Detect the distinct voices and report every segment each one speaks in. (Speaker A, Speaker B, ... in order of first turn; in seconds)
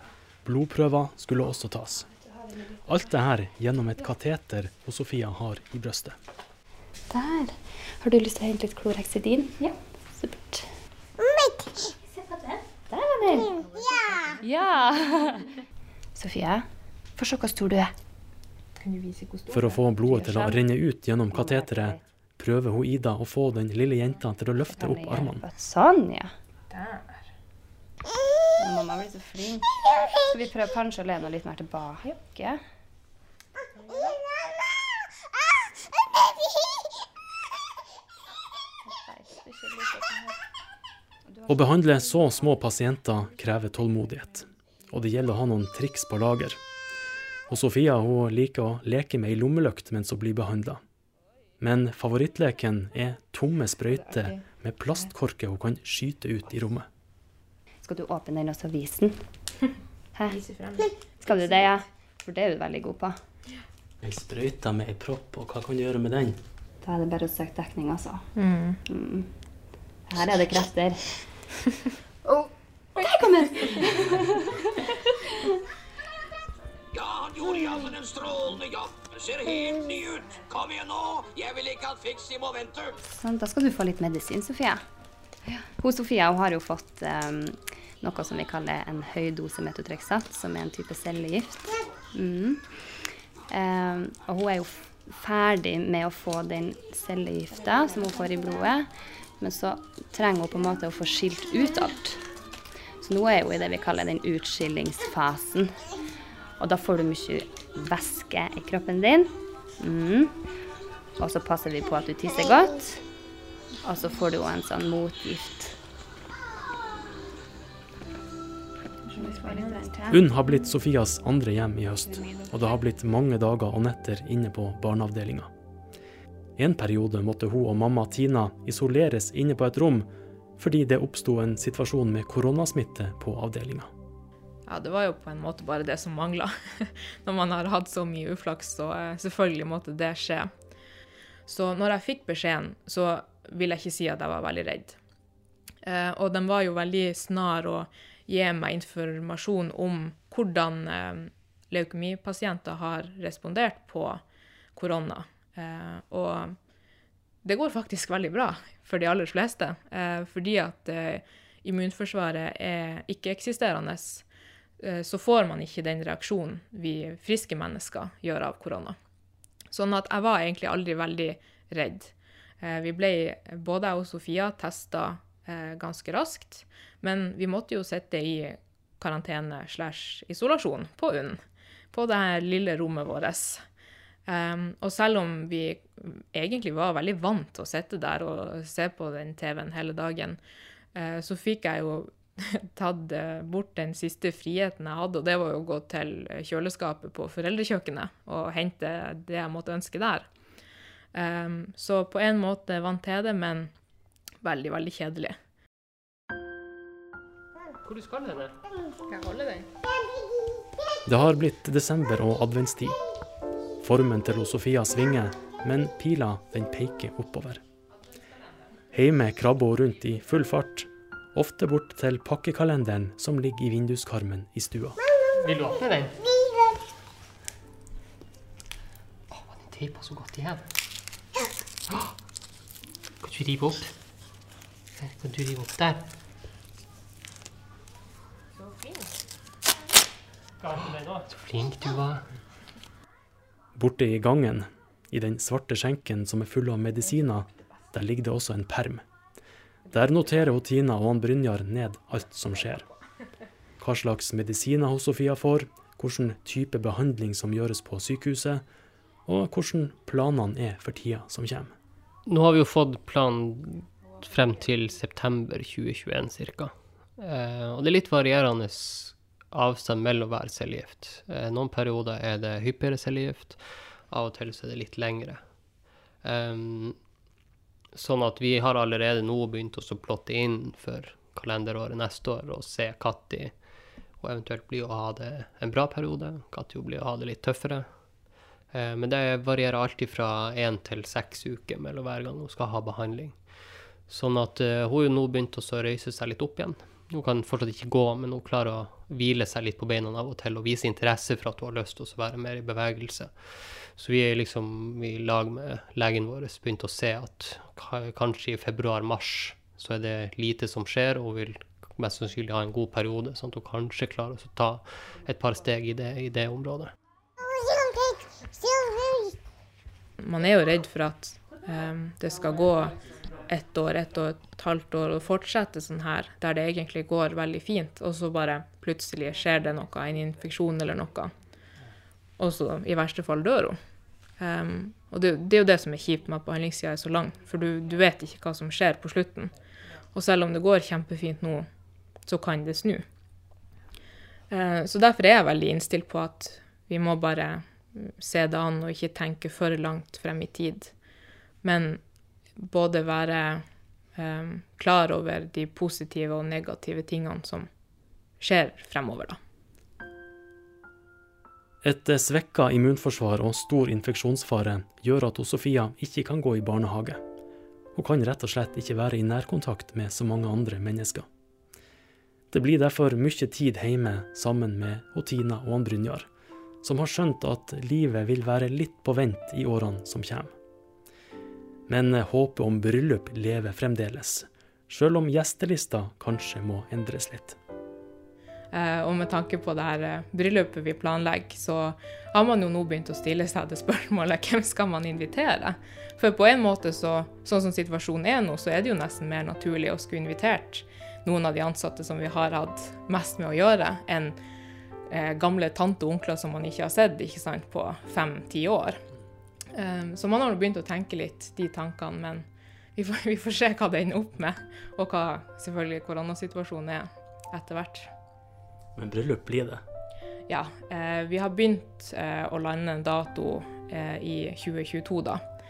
Speaker A: 0.5-2.1, 2.9-6.2, 19.5-25.4, 41.5-46.6, 47.5-50.8, 51.6-56.9, 64.0-66.4, 120.1-125.5, 126.6-133.9, 211.1-213.0, 213.8-217.6, 218.9-225.0, 243.8-249.0, 249.9-252.9, 253.8-258.6, 259.3-261.7, 361.8-367.2, 367.9-371.3, 372.5-376.3, 376.8-380.5, 381.9-387.6, 418.9-419.8
Speaker B: 2.1-2.9, 7.1-10.7, 11.8-13.6, 14.4-15.5, 16.1-17.9, 20.1-20.6, 21.3-22.0, 24.7-26.3, 28.6-32.6, 38.9-40.4, 41.3-41.8, 57.8-59.4, 60.1-60.4, 61.2-63.2, 66.8-68.3, 68.8-69.3, 70.0-71.6, 72.2-75.5, 83.0-84.8, 85.5-102.3, 103.0-105.9, 106.6-110.4, 111.2-113.1, 113.8-115.8, 119.0-120.2, 122.2-122.5
Speaker C: 13.5-14.6, 18.8-20.5, 26.7-27.3, 33.8-34.1, 53.9-54.5, 60.3-61.6, 68.3-68.8, 119.2-119.8, 134.7-140.5, 141.5-145.0, 145.8-154.2, 154.8-156.6, 157.4-164.2, 164.8-169.0, 169.7-181.4, 181.9-183.6, 184.3-190.4, 190.9-200.3, 201.1-203.7, 204.4-205.4, 209.1-209.7, 238.6-239.1, 320.2-331.3, 332.4-333.8, 334.4-339.5, 340.1-341.7, 342.3-343.1, 344.5-350.9, 351.6-352.0, 352.6-353.6, 354.2-357.7, 358.4-359.4, 388.7-404.4, 405.1-409.0, 409.7-418.1, 420.5-425.4
Speaker D: 76.9-83.0
Speaker E: 207.8-208.6, 225.3-226.2, 229.3-230.6, 233.2-233.9, 235.0-236.0, 240.6-242.3, 262.3-275.6, 276.2-277.0, 277.9-283.6, 284.2-288.1, 288.7-316.9